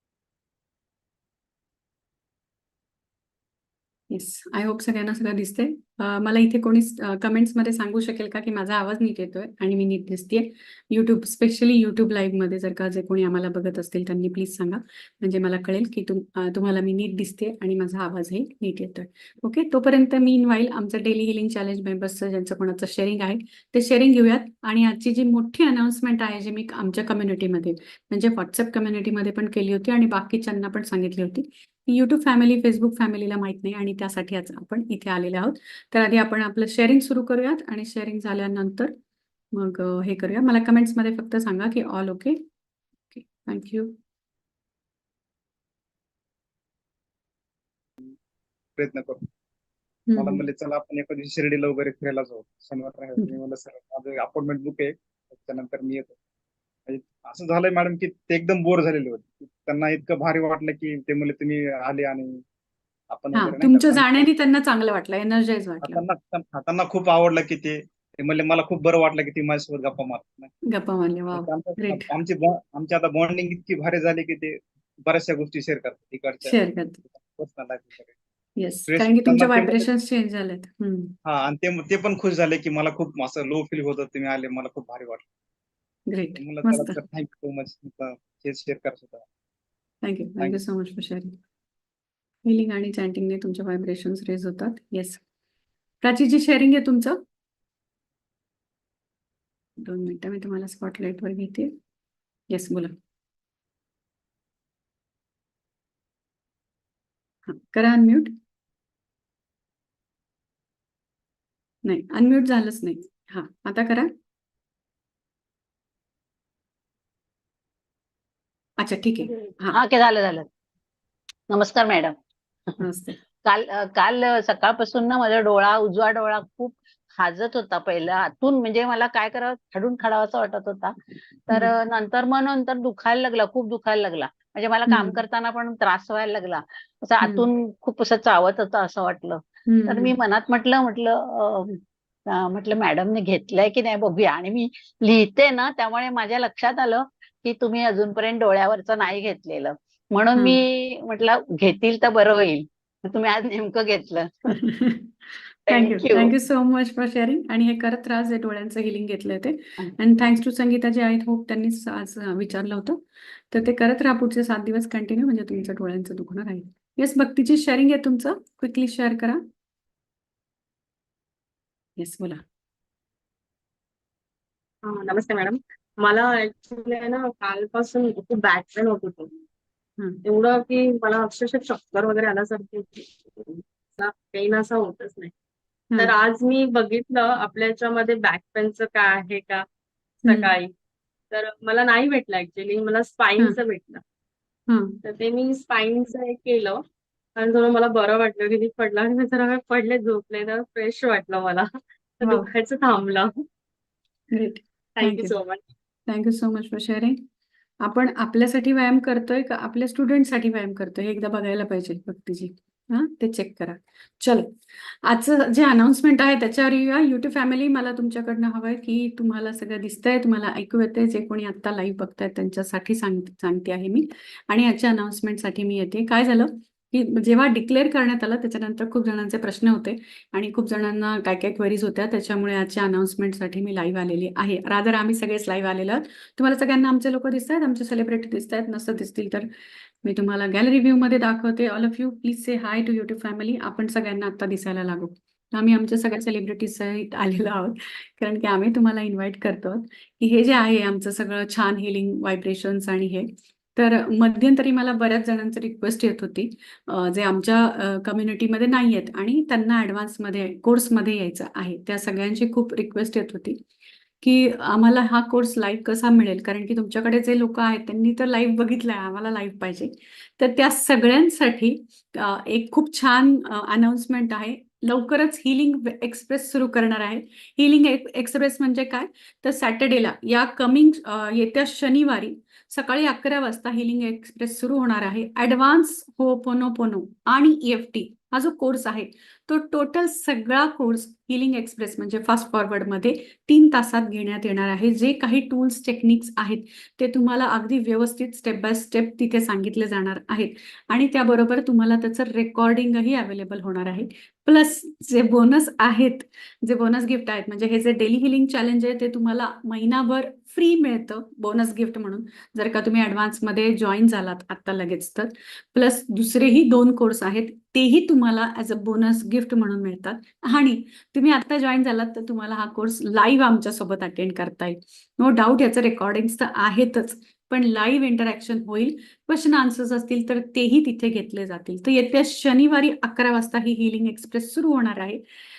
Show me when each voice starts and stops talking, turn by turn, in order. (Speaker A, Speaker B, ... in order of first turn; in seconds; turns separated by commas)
Speaker A: 4.1-38.9, Speaker A: 39.5-42.4, Speaker A: 43.1-44.0, Speaker B: 48.8-49.3, Speaker A: 50.1-50.5, Speaker B: 50.2-56.2, Speaker B: 56.9-62.4, Speaker B: 63.1-64.3, Speaker A: 63.3-66.0, Speaker B: 65.8-70.5, Speaker A: 70.7-72.1, Speaker B: 71.3-78.2, Speaker A: 76.4-77.0, Speaker A: 78.6-81.1, Speaker B: 78.9-79.9, Speaker B: 81.2-85.3, Speaker A: 86.1-87.0, Speaker B: 86.3-89.2, Speaker A: 90.0-91.3, Speaker A: 92.4-95.2, Speaker A: 96.0-97.2, Speaker A: 99.8-101.7, Speaker A: 102.5-102.9, Speaker A: 107.5-108.3, Speaker A: 111.8-114.1, Speaker A: 118.8-119.8, Speaker C: 119.7-120.5, Speaker C: 121.5-122.2, Speaker A: 122.8-123.2, Speaker C: 123.4-130.9, Speaker C: 131.4-154.5, Speaker A: 134.9-135.2, Speaker A: 137.2-137.5, Speaker A: 139.7-140.2, Speaker A: 150.3-150.6, Speaker A: 154.6-169.4, Speaker C: 155.7-156.3, Speaker A: 172.0-172.4, Speaker D: 174.8-179.3, Speaker D: 180.2-185.3, Speaker D: 186.0-189.6, Speaker D: 190.2-190.7, Speaker A: 190.2-190.5, Speaker D: 191.3-194.0, Speaker A: 194.7-195.0, Speaker D: 195.0-196.8, Speaker D: 197.4-201.7, Speaker D: 202.2-203.3, Speaker A: 204.3-205.3, Speaker D: 204.9-205.6, Speaker A: 206.1-207.2, Speaker A: 207.8-239.5, Speaker A: 240.0-263.6, Speaker A: 264.2-335.2